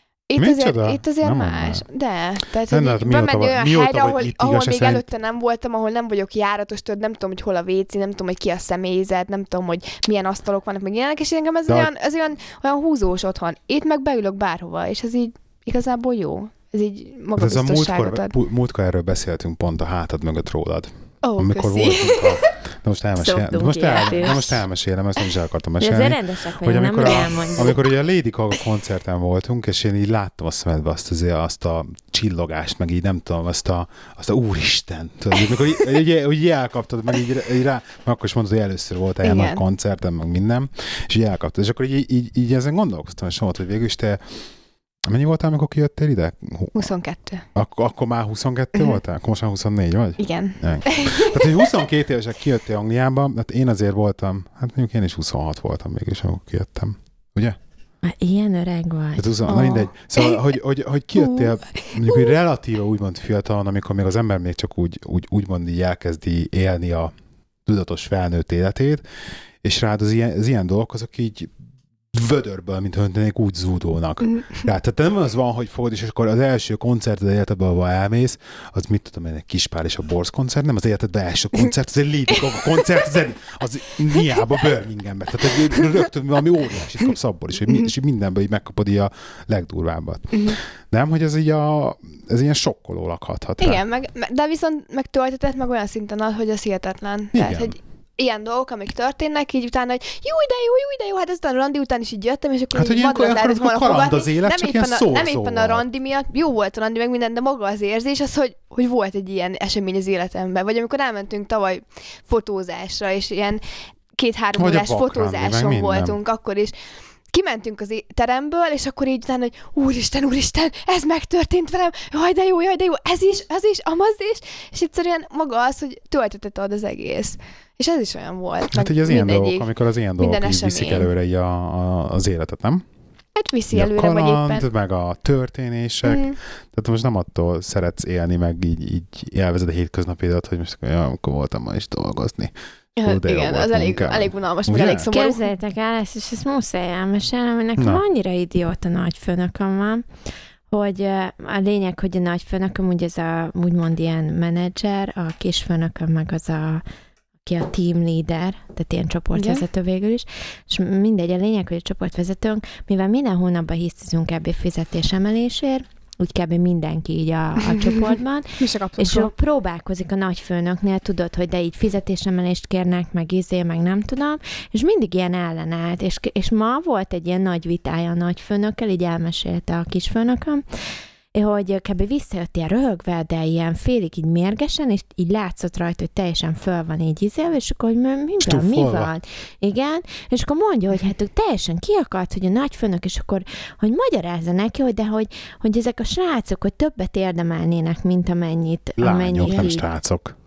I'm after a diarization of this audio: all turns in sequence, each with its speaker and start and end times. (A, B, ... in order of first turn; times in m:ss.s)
0:00.3-0:18.3 A
0:00.4-0:01.8 B
0:02.7-0:05.0 B
0:17.4-0:44.2 B
0:21.2-0:22.5 A
0:23.2-0:24.6 C
0:25.8-0:27.8 C
0:39.2-0:39.6 A
0:45.0-0:46.9 B
0:46.7-0:47.4 A
0:47.6-0:57.6 B
0:48.7-0:49.0 A
0:50.2-0:51.6 A
0:58.0-0:59.4 C
0:59.2-1:07.1 B
0:59.5-1:00.4 A
1:01.2-1:02.3 A
1:07.6-1:09.0 B
1:09.6-1:11.5 B
1:12.1-1:33.8 B
1:30.3-1:30.6 A
1:33.6-1:53.6 A
1:37.3-1:37.8 B
1:42.7-1:45.8 B
1:54.2-1:56.8 A
1:54.5-1:56.2 B
1:57.3-2:11.1 A
2:08.7-2:12.8 B
2:13.4-2:14.7 A
2:13.7-2:25.1 B
2:16.0-2:16.4 A
2:23.0-2:25.5 A
2:25.1-2:30.0 C
2:27.8-2:28.0 B
2:30.7-2:36.8 C
2:37.4-3:00.6 C
2:39.3-2:39.6 A
2:47.7-2:49.3 A
3:01.3-3:19.9 C
3:08.4-3:09.1 B
3:19.0-3:20.3 B